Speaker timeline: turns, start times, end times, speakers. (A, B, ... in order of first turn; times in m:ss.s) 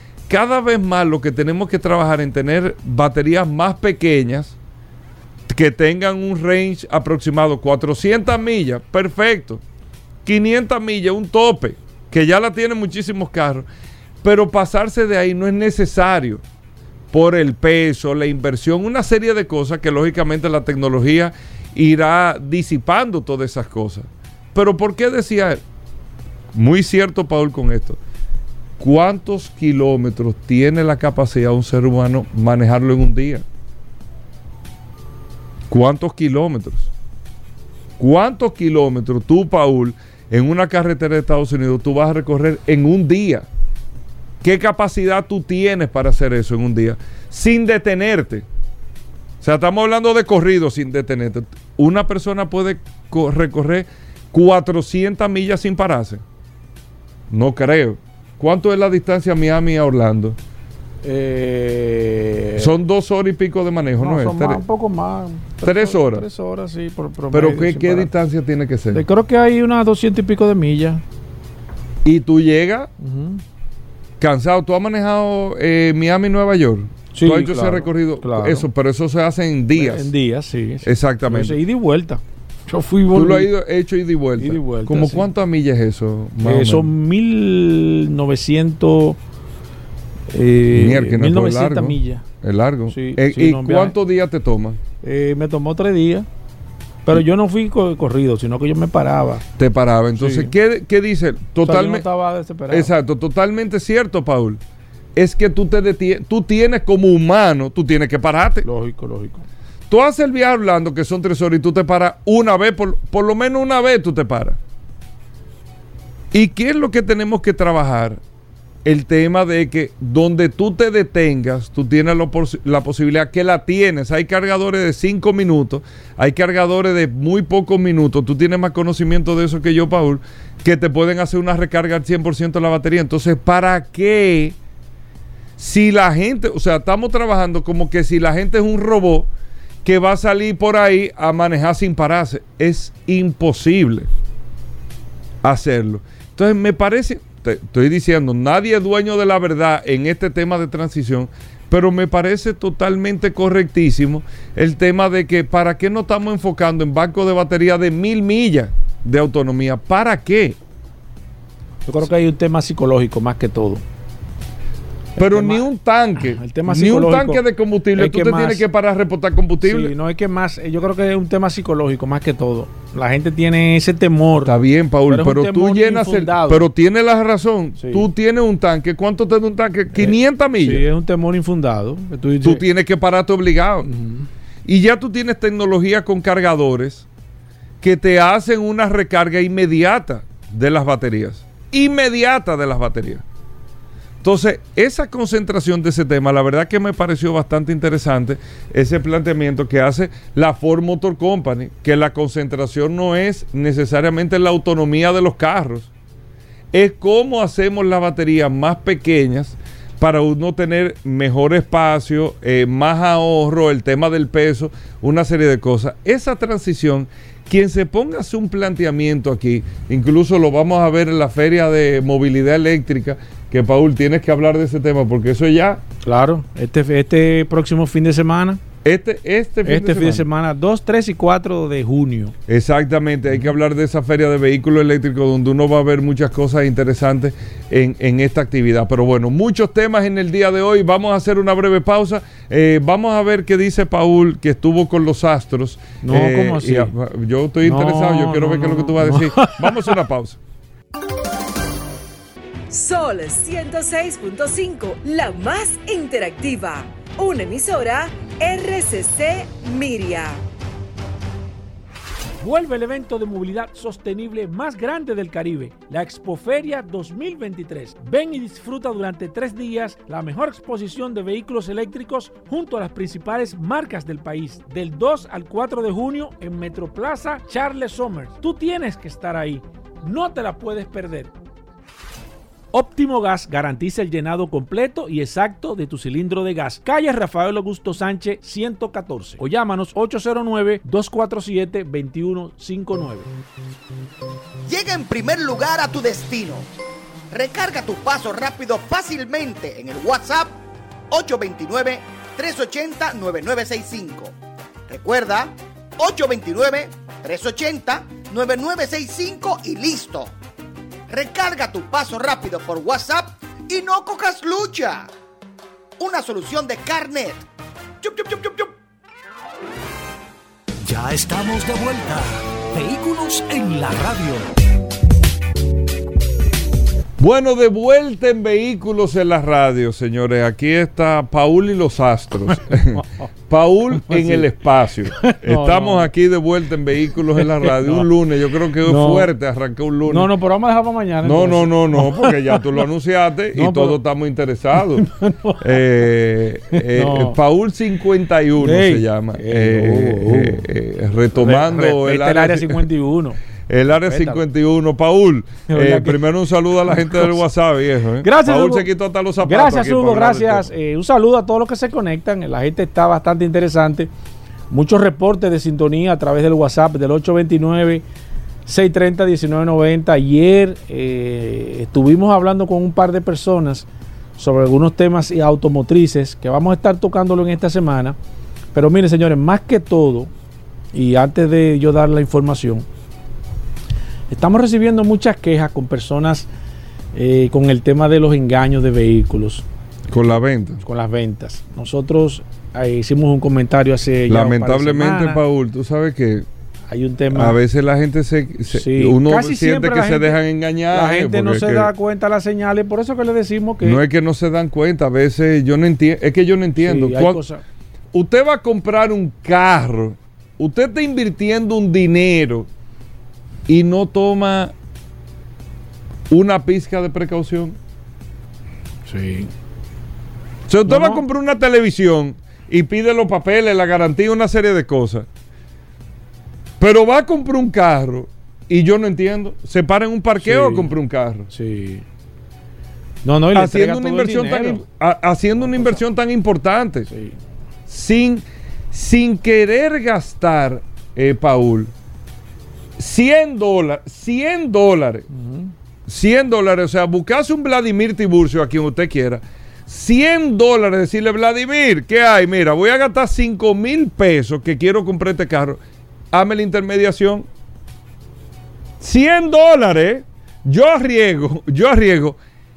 0:00.3-0:04.6 A
0:05.5-0:09.6 A
0:10.2-0:13.7 A
0:14.2-0:16.4 A
0:17.1-0:25.6 A
0:26.5-0:28.0 A
0:28.8-0:33.4 A
0:35.7-0:36.9 A
0:38.0-0:43.5 A
0:44.4-0:48.5 A
0:49.4-0:56.2 A
0:57.3-1:00.4 A
1:01.0-1:02.7 B
1:02.6-1:04.6 A
1:04.0-1:08.1 B
1:05.6-1:06.3 A
1:07.3-1:09.0 A
1:08.9-1:11.0 B
1:12.0-1:12.9 A
1:13.0-1:13.4 B
1:14.2-1:20.1 A
1:17.1-1:18.7 B
1:19.8-1:23.5 B
1:20.8-1:21.6 A
1:23.1-1:26.9 A
1:24.4-1:25.3 B
1:26.4-1:29.2 B
1:30.3-1:32.2 B
1:30.7-1:34.8 A
1:32.9-1:34.0 B
1:35.0-1:36.3 B
1:37.0-1:39.4 B
1:39.6-1:42.1 A
1:40.2-1:40.5 B
1:41.6-1:42.9 B
1:42.7-1:44.6 A
1:45.2-1:48.7 A
1:48.6-1:49.4 B
1:49.9-1:54.6 A
1:56.3-1:58.2 A
1:58.8-2:14.6 A
2:15.6-2:19.3 A
2:19.8-2:24.1 A
2:25.4-2:40.6 A
2:41.9-2:43.8 B
2:45.2-2:45.6 B
2:45.2-2:49.9 A
2:46.2-2:47.4 B
2:48.0-2:48.6 B
2:49.6-2:54.5 B
2:54.4-3:00.8 A
2:55.1-2:56.7 B
2:57.8-2:58.1 B
2:59.9-3:02.6 B
3:02.4-3:03.9 A
3:03.9-3:04.3 B
3:04.6-3:07.1 A
3:07.8-3:13.2 A
3:14.2-3:25.9 A
3:26.7-3:45.8 A
3:46.0-3:48.6 B
3:48.8-3:50.3 A
3:49.6-3:52.4 B
3:52.5-4:10.4 A
4:06.0-4:06.9 B
4:07.6-4:10.0 B
4:12.7-4:20.4 C
4:22.4-4:41.3 B
4:42.7-4:53.3 B
4:54.7-4:56.7 D
4:57.3-5:00.6 D
5:01.1-5:04.3 D
5:04.9-5:10.3 D
5:11.1-5:15.1 D
5:16.0-5:17.4 D
5:18.0-5:18.7 D
5:20.8-5:24.5 E
5:27.2-5:40.3 A
5:34.0-5:34.5 B
5:35.2-5:36.1 B
5:37.4-5:38.1 B
5:38.8-5:39.3 B
5:40.1-5:42.6 B
5:41.2-5:45.1 A
5:43.6-5:44.0 B
5:45.0-5:45.8 B
5:45.6-5:52.8 A
5:46.7-5:47.4 B
5:48.6-5:50.6 B
5:51.4-5:53.4 B
5:53.7-6:00.7 A
5:54.1-5:54.4 B
5:55.7-5:56.2 B
5:56.9-5:57.4 B
5:58.2-5:58.9 B
5:59.4-6:04.1 B
6:04.7-6:08.0 B
6:08.7-6:13.9 B
6:14.4-6:18.2 B
6:18.7-6:20.3 B
6:20.9-6:22.8 B
6:24.3-6:26.5 B
6:27.1-6:29.6 B
6:30.1-6:30.8 A
6:30.8-6:35.4 B
6:34.3-6:36.5 A
6:36.9-6:37.6 B
6:37.3-6:41.9 A
6:38.7-6:40.4 B
6:40.9-6:44.0 B
6:43.8-6:47.4 A
6:46.8-6:47.6 B
6:48.1-6:52.7 A
6:53.7-6:54.7 A
6:56.3-6:57.8 A
6:59.1-6:59.5 B
7:00.7-7:05.3 A
7:00.9-7:01.2 B
7:06.8-7:11.5 A
7:10.4-7:10.9 B
7:11.5-7:12.0 B
7:13.2-7:14.8 B
7:13.5-7:17.1 A
7:15.6-7:16.0 B
7:17.1-7:17.4 B
7:17.9-7:21.9 A
7:23.0-7:25.3 A
7:25.3-7:25.7 B
7:26.1-7:35.8 A
7:36.3-7:37.5 A
7:39.0-7:42.4 A